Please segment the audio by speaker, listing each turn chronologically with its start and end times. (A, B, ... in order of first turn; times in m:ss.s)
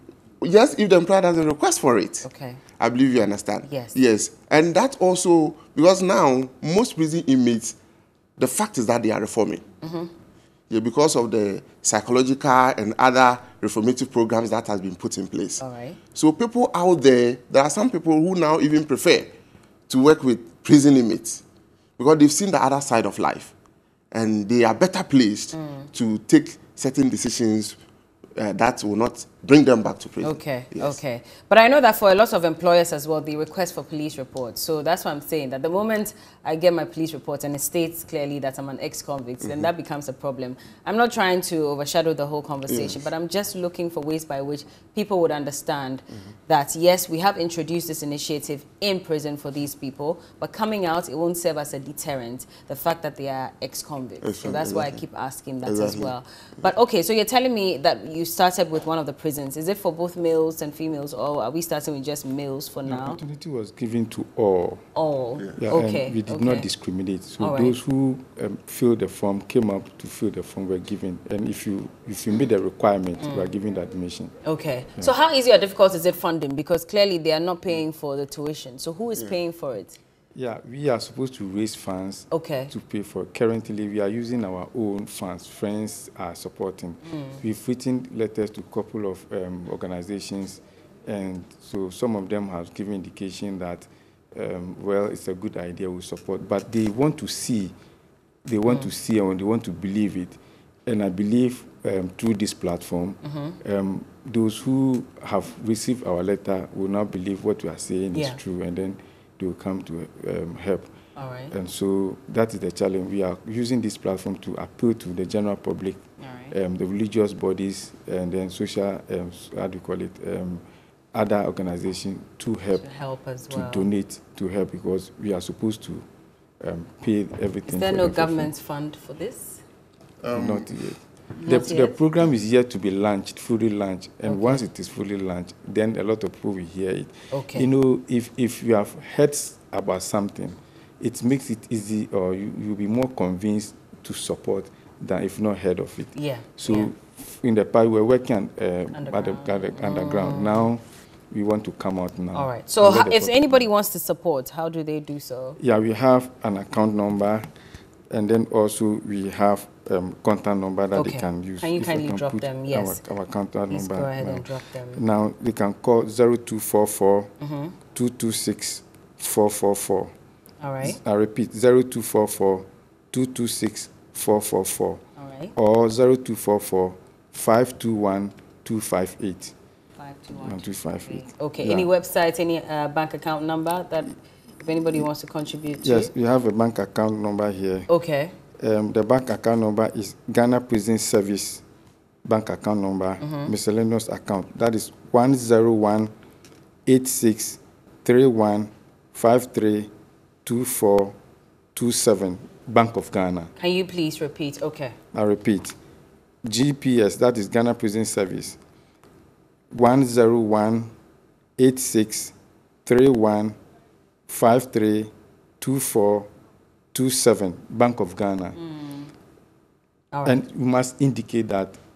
0:00.4-0:02.2 A
0:02.2-0:02.6 B
0:02.8-0:07.8 A
0:03.6-0:04.0 B
0:08.4-0:09.6 A
0:09.8-0:10.1 B
0:10.7-0:19.3 A
0:15.6-0:16.0 B
0:19.9-0:21.4 A
0:22.0-0:23.5 A
0:24.1-0:27.8 A
0:25.5-0:25.9 B
0:28.4-0:31.0 A
0:30.2-1:03.2 B
0:42.7-0:43.0 A
0:54.2-0:55.0 A
0:55.6-0:56.7 A
1:02.8-1:04.8 C
1:04.9-1:06.7 B
1:05.4-1:05.6 A
1:05.6-1:14.4 C
1:07.4-1:07.8 B
1:13.2-1:13.5 B
1:14.4-1:20.0 B
1:20.3-1:37.7 C
1:22.3-1:22.7 B
1:27.1-1:27.4 B
1:38.4-1:50.9 C
1:43.2-1:43.6 B
1:48.1-1:48.4 B
1:51.2-1:51.5 B
1:51.5-2:02.8 C
1:56.2-1:56.5 B
2:02.7-2:03.9 B
2:03.5-2:06.0 C
2:06.6-2:08.5 C
2:07.6-2:09.6 B
2:10.2-2:10.7 A
2:10.3-2:33.7 C
2:11.3-2:12.0 B
2:14.2-2:14.6 B
2:17.3-2:17.7 B
2:26.1-2:26.9 B
2:28.9-2:30.7 B
2:32.3-2:35.6 B
2:35.6-2:37.5 C
2:38.1-2:47.3 C
2:40.9-2:43.0 B
2:43.7-2:45.0 B
2:47.4-2:47.7 B
2:47.9-2:50.1 C
2:50.6-2:51.0 B
2:50.8-2:55.0 C
2:55.2-2:55.5 B
2:55.5-2:59.5 C
3:00.0-3:06.1 B
3:00.3-3:01.9 C
3:05.8-3:07.9 C
3:07.9-3:08.3 B
3:08.6-3:11.6 C
3:12.2-3:16.1 C
3:13.2-3:13.5 B
3:16.8-3:19.9 C
3:20.4-3:21.2 C
3:21.7-3:23.5 C
3:23.6-3:25.0 B
3:25.1-3:25.8 C
3:26.4-3:28.6 C
3:29.7-3:30.9 C
3:31.6-3:33.6 C
3:34.3-3:36.3 C
3:36.9-3:38.6 C
3:38.6-3:39.1 B
3:40.1-3:40.4 B
3:40.2-3:41.8 C